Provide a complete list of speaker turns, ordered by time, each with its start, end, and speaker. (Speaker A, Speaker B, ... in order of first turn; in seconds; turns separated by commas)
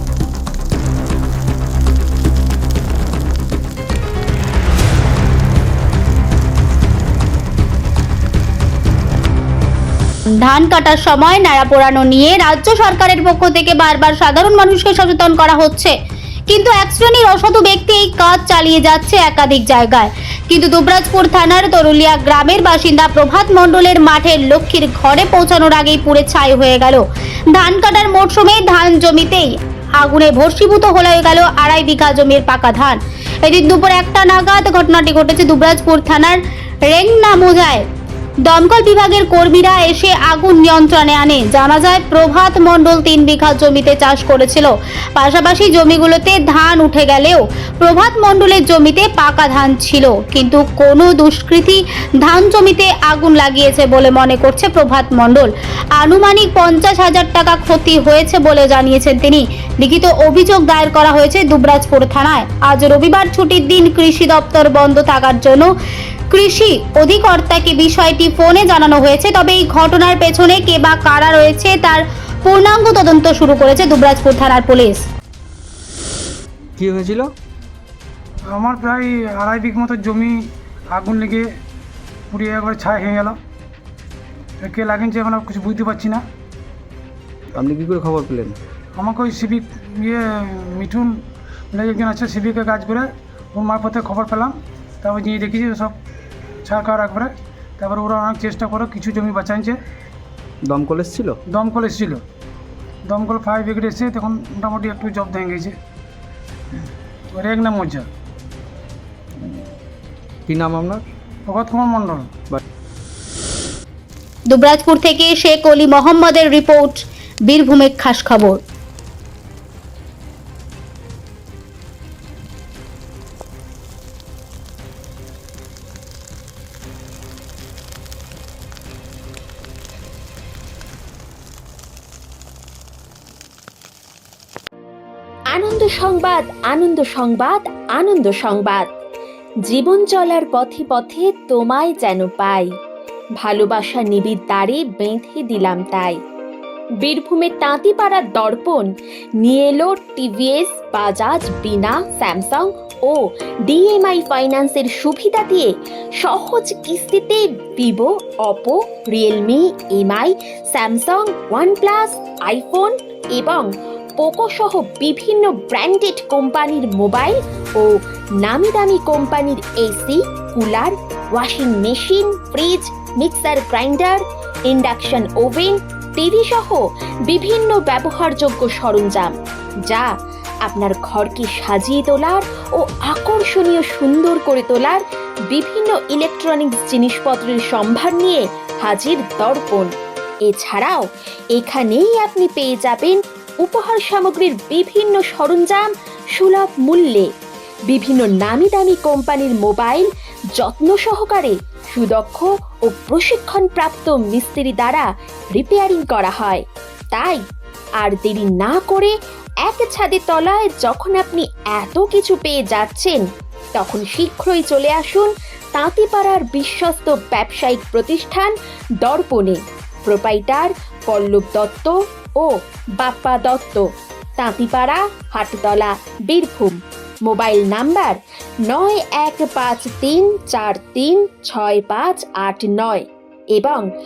Speaker A: 10.4-15.9, Speaker A: 16.5-27.0, Speaker A: 27.5-29.5, Speaker A: 30.0-37.9, Speaker A: 38.5-65.7, Speaker A: 66.3-75.0, Speaker B: 76.8-77.3, Speaker C: 78.5-80.4, Speaker C: 80.9-81.5, Speaker C: 82.3-83.4, Speaker C: 84.6-86.2, Speaker B: 87.6-88.6, Speaker C: 89.0-91.2, Speaker C: 91.7-96.0, Speaker C: 96.7-99.8, Speaker B: 100.7-101.4, Speaker C: 101.5-102.2, Speaker C: 103.1-105.8, Speaker C: 107.3-108.0, Speaker B: 110.5-111.0, Speaker C: 111.5-112.3, Speaker A: 114.5-118.6, Speaker D: 135.5-138.9, Speaker D: 139.7-142.7, Speaker D: 143.4-146.2, Speaker D: 147.0-148.9, Speaker D: 149.4-179.3, Speaker D: 180.7-189.9, Speaker D: 190.5-191.0, Speaker D: 191.5-197.3, Speaker D: 197.9-207.4, Speaker D: 208.0-213.2, Speaker D: 213.8-223.8, Speaker D: 224.4-233.9